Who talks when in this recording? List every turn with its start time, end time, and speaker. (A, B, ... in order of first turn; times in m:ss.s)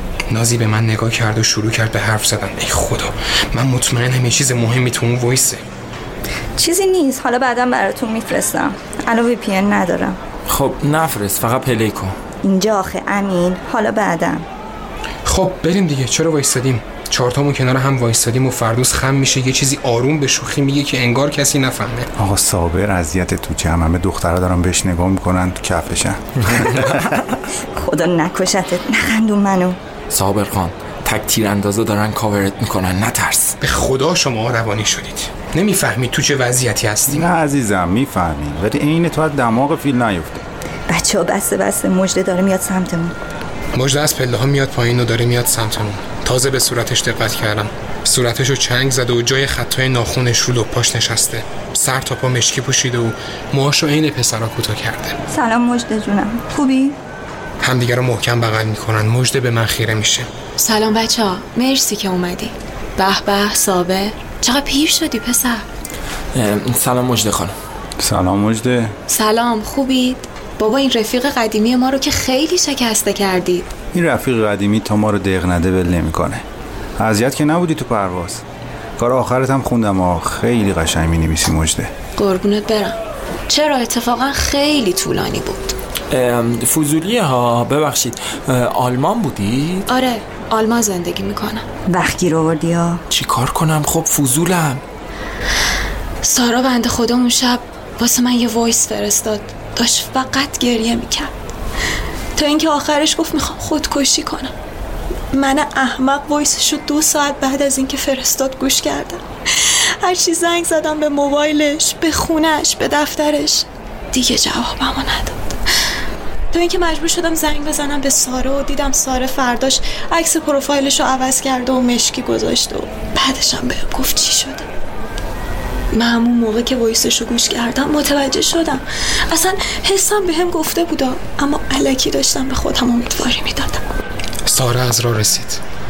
0:00.3-0:05.6 A
0:06.6-0:10.2 B
0:10.5-0:12.2 C
0:12.4-0:14.5 B
0:15.3-0:22.1 A
0:22.2-0:27.2 D
0:26.5-0:26.8 C
0:27.8-0:29.8 B
0:30.1-0:33.6 C
0:33.6-0:37.3 A
0:37.0-0:40.4 D
0:40.9-0:43.1 B
0:43.8-0:55.2 A
0:55.3-0:57.0 B
0:57.6-1:00.3 A
1:00.6-1:05.6 E
1:06.3-1:07.6 C
1:08.0-1:09.0 D
1:09.1-1:13.7 E
1:13.9-1:16.4 D
1:17.0-1:18.4 D
1:19.0-1:21.9 D
1:22.2-1:23.0 E
1:23.5-1:25.8 E
1:26.1-1:29.9 C
1:29.9-1:31.6 E
1:31.9-1:33.0 B
1:33.1-1:34.8 C
1:36.2-1:41.3 E
1:42.4-1:44.5 E
1:45.3-1:55.6 E
1:56.5-2:04.7 E
2:05.9-2:13.8 E
2:14.5-2:15.6 A